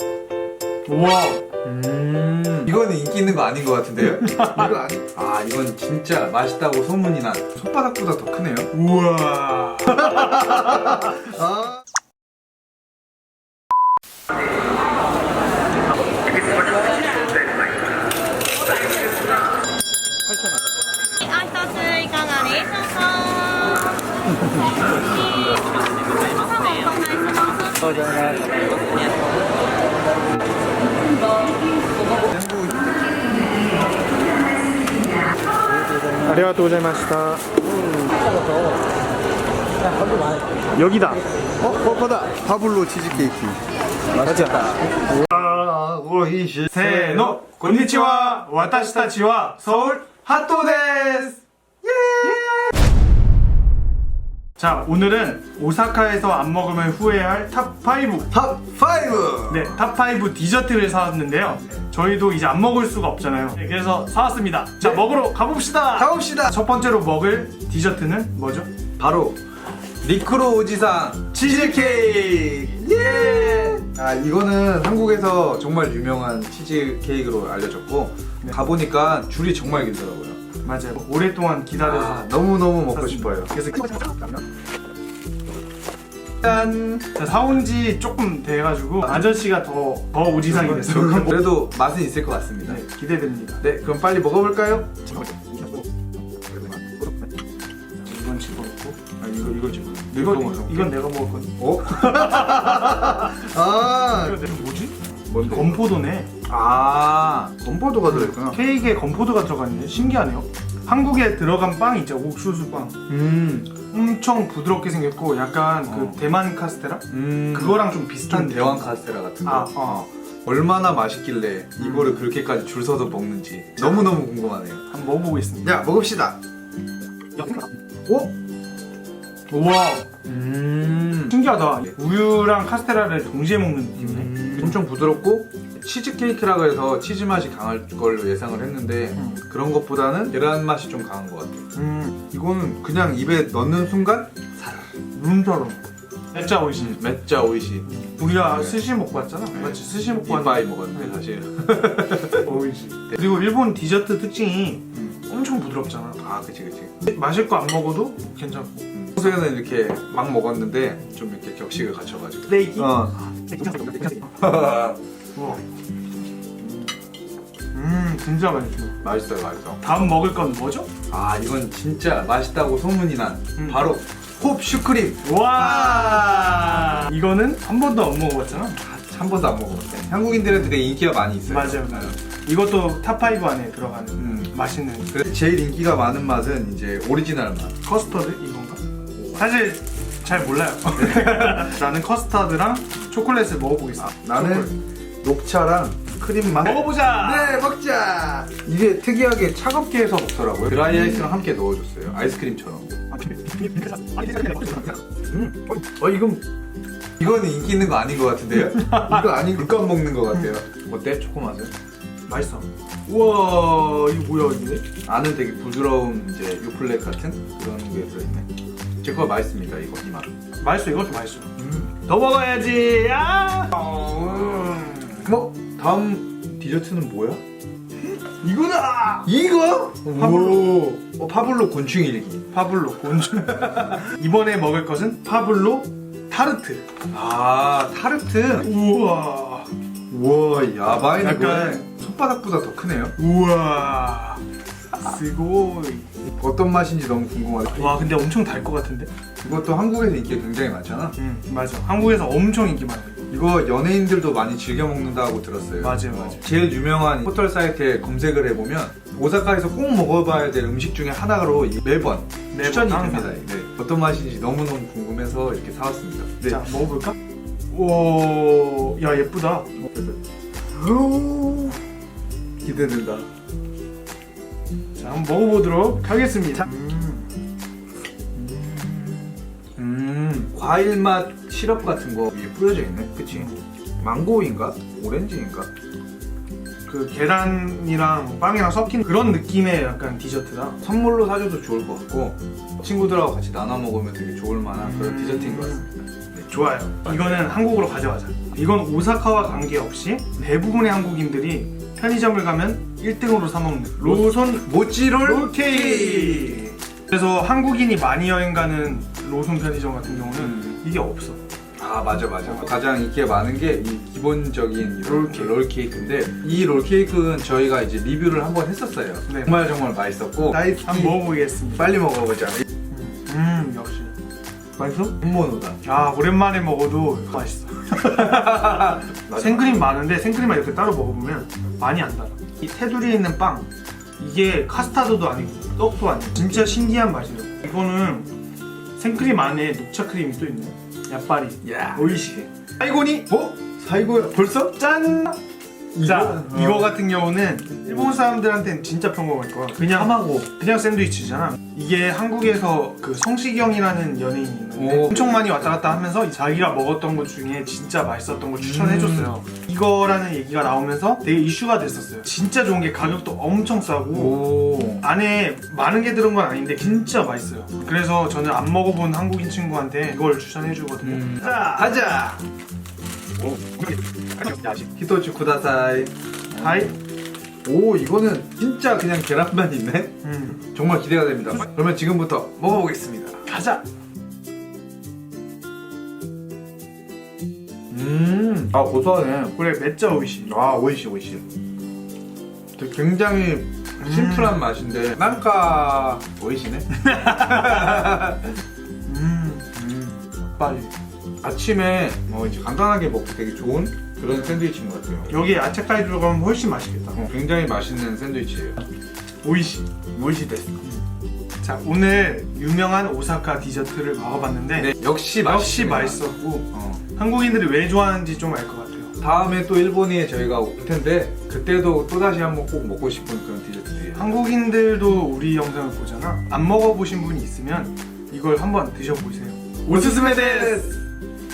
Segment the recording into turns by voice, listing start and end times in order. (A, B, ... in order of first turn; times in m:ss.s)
0:00.8-0:01.4 A
0:01.6-0:08.7 B
0:04.0-0:04.7 A
0:08.7-0:11.0 A
0:10.0-0:11.7 B
0:21.2-0:24.0 C
0:26.2-0:28.7 C
0:32.3-0:33.4 B
0:36.2-0:37.6 A
0:40.7-0:41.2 A
0:41.6-0:43.6 B
0:44.1-0:48.7 B
0:44.2-0:44.9 A
0:46.7-0:50.2 A
0:49.7-0:52.7 B
0:54.6-0:58.3 A
0:58.3-0:59.8 B
0:59.5-1:08.7 A
1:06.0-1:06.6 B
1:09.0-1:09.4 B
1:10.0-1:20.4 B
1:11.3-1:12.2 A
1:12.8-1:13.8 A
1:20.6-1:22.3 A
1:21.8-1:24.4 B
1:22.9-1:24.2 A
1:26.4-1:27.1 B
1:27.0-1:31.5 A
1:30.5-1:32.8 B
1:32.6-1:33.6 A
1:33.6-1:35.8 B
1:36.5-1:37.1 B
1:38.0-1:41.6 A
1:39.2-1:40.9 B
1:41.6-1:44.5 B
1:42.1-1:43.1 A
1:44.1-1:46.3 A
1:45.3-1:45.8 B
1:46.4-1:48.6 B
1:48.0-1:53.0 A
1:53.1-1:53.8 B
1:53.9-2:00.0 A
1:55.9-1:56.2 B
1:57.1-2:04.9 B
2:01.8-2:02.3 A
2:04.9-2:05.8 A
2:05.6-2:06.4 B
2:07.4-2:08.3 B
2:09.5-2:10.1 A
2:10.2-2:11.9 B
2:11.3-2:14.8 A
2:14.0-2:21.7 B
2:21.7-2:22.2 A
2:22.3-2:24.8 B
2:25.1-2:25.8 A
2:26.3-2:27.0 A
2:26.8-2:28.8 B
2:27.9-2:31.2 A
2:29.5-2:32.5 B
2:32.3-2:36.2 A
2:36.2-2:37.0 B
2:37.0-2:39.3 A
2:38.9-2:43.2 B
2:42.5-2:44.3 A
2:44.3-2:45.0 B
2:45.3-2:45.6 A
2:46.6-2:46.9 A
2:47.7-2:49.0 A
2:49.0-2:49.8 B
2:49.8-2:50.9 A
2:51.1-2:57.0 B
2:53.6-2:53.9 A
2:55.2-2:58.8 A
2:58.8-3:02.1 B
3:00.5-3:00.8 A
3:01.5-3:05.1 A
3:04.2-3:04.5 B
3:05.1-3:07.8 B
3:07.8-3:08.8 A
3:09.2-3:09.4 B
3:09.4-3:14.7 A
3:11.0-3:11.7 B
3:14.0-3:26.4 B
3:16.6-3:17.7 A
3:23.7-3:24.8 A
3:27.2-3:31.7 B
3:32.3-3:34.9 A
3:35.0-3:38.5 B
3:39.0-3:40.3 B
3:40.6-3:43.8 A
3:41.6-3:41.9 B
3:43.7-3:47.4 B
3:48.4-3:52.5 B
3:50.1-3:50.9 A
3:52.5-3:56.9 A
3:53.4-3:54.0 B
3:57.1-3:58.7 B
3:58.6-3:59.7 A
4:00.1-4:03.2 B
4:01.1-4:01.8 A
4:03.2-4:04.4 A
4:04.9-4:06.1 A
4:06.2-4:08.1 B
4:07.7-4:09.1 A
4:09.4-4:11.2 B
4:11.2-4:13.3 A
4:13.3-4:26.6 B
4:15.8-4:16.4 A
4:22.5-4:23.3 A
4:26.5-4:27.2 A
4:27.7-4:29.7 A
4:30.7-4:31.8 B
4:32.6-4:33.3 B
4:35.0-4:37.3 A
4:38.4-4:45.7 B
4:43.3-4:43.6 A
4:46.9-4:50.8 A
4:50.8-4:56.5 B
4:54.7-4:55.9 A
4:56.5-5:11.4 A
4:57.0-4:57.4 B
5:04.0-5:06.7 B
5:10.4-5:10.8 B
5:11.8-5:21.2 B
5:12.4-5:12.7 A
5:15.0-5:15.5 A
5:19.3-5:19.6 A
5:20.7-5:22.0 A
5:21.8-5:22.6 B
5:22.9-5:24.1 A
5:24.8-5:25.2 A
5:25.2-5:25.8 B
5:25.8-5:38.3 A
5:28.0-5:30.0 B
5:39.0-5:43.2 A
5:41.6-5:42.3 B
5:43.2-5:44.8 B
5:44.8-5:45.4 A
5:45.9-5:46.9 B
5:46.0-6:12.0 A
5:49.8-5:50.5 B
5:54.8-5:56.0 B
5:58.6-5:59.3 B
6:04.1-6:05.0 B
6:11.0-6:12.4 B
6:13.5-6:16.9 B
6:16.6-6:16.9 A
6:17.6-6:23.4 B
6:20.2-6:20.6 A
6:23.4-6:23.8 A
6:27.9-6:29.6 B
6:29.5-6:30.5 A
6:30.4-6:31.4 B
6:32.8-6:38.5 B
6:34.1-6:34.6 A
6:37.1-6:38.1 A
6:39.1-6:39.8 A
6:39.8-6:40.1 B
6:40.6-6:40.9 A
6:41.4-6:45.3 B
6:45.3-6:47.2 A
6:47.1-6:48.8 B
6:49.4-6:50.0 A
6:50.1-6:50.8 B
6:51.6-6:59.1 A
6:54.8-6:57.0 B
6:59.2-7:04.3 B
7:04.1-7:11.0 A
7:09.8-7:10.9 B